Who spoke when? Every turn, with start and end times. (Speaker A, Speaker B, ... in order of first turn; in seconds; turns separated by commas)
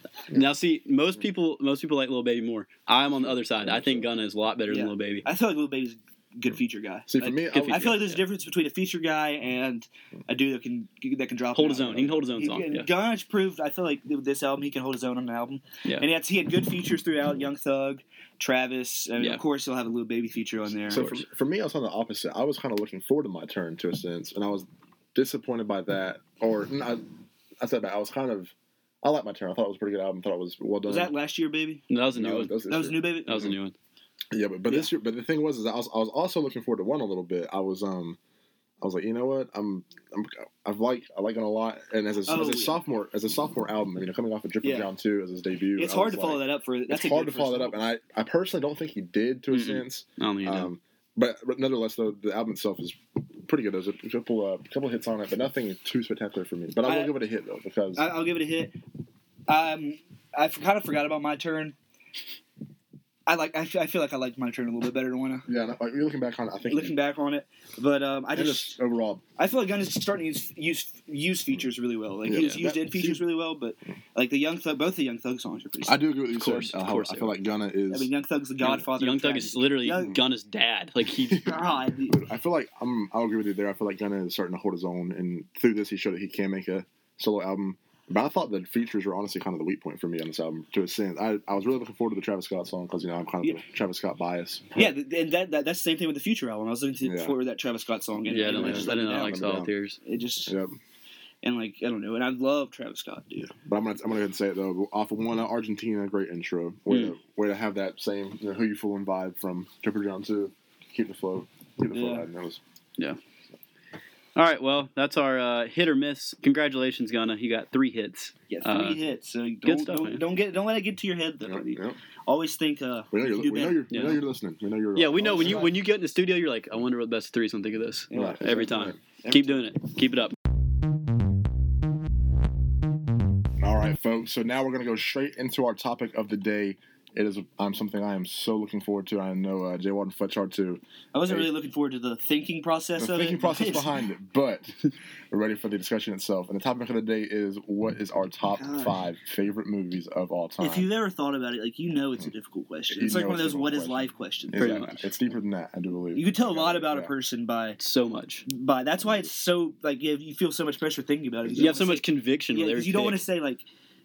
Speaker A: 0.3-5.2, Speaker B: 3.1-4.1, Speaker C: 4.7-21.1, Speaker B: 7.1-8.0, Speaker A: 7.5-8.2, Speaker A: 11.5-12.9, Speaker A: 20.9-21.2, Speaker B: 20.9-27.1, Speaker B: 27.6-31.1, Speaker C: 30.9-31.8, Speaker A: 31.9-32.5, Speaker B: 32.1-33.5, Speaker C: 32.7-33.5, Speaker A: 33.3-33.7, Speaker B: 34.3-38.2, Speaker B: 38.8-58.1, Speaker C: 42.3-42.8, Speaker C: 44.6-44.9, Speaker C: 45.8-47.8, Speaker A: 49.5-50.7, Speaker C: 56.8-57.1, Speaker C: 58.0-58.8, Speaker C: 59.5-61.7, Speaker C: 63.3-65.5, Speaker B: 65.5-66.9, Speaker C: 66.7-68.8, Speaker B: 68.3-69.2, Speaker C: 69.4-76.0, Speaker B: 72.2-73.2, Speaker B: 75.8-78.1, Speaker A: 76.4-77.3, Speaker C: 77.9-80.2, Speaker A: 78.6-81.5, Speaker B: 81.2-94.9, Speaker C: 81.4-82.2, Speaker C: 94.7-100.5, Speaker B: 97.0-97.3, Speaker A: 98.3-100.0, Speaker B: 98.4-99.7, Speaker B: 100.5-100.7, Speaker C: 101.4-103.5, Speaker B: 103.5-112.6, Speaker C: 111.9-112.3, Speaker A: 114.3-119.0, Speaker C: 118.5-123.9, Speaker A: 119.6-120.2, Speaker B: 121.4-122.0, Speaker B: 123.1-125.7, Speaker A: 123.9-124.2, Speaker A: 124.9-130.3, Speaker C: 125.2-125.7, Speaker C: 128.1-128.5, Speaker B: 128.1-129.0, Speaker C: 129.2-129.6, Speaker B: 133.6-141.5, Speaker C: 141.1-144.0, Speaker B: 143.0-144.7, Speaker B: 145.3-150.9, Speaker C: 148.6-149.0, Speaker C: 150.6-155.0, Speaker B: 152.9-157.1, Speaker A: 154.6-155.0, Speaker C: 156.1-157.8, Speaker A: 157.8-158.4, Speaker C: 158.5-163.6, Speaker B: 159.0-159.3, Speaker B: 161.5-161.7, Speaker A: 161.6-163.2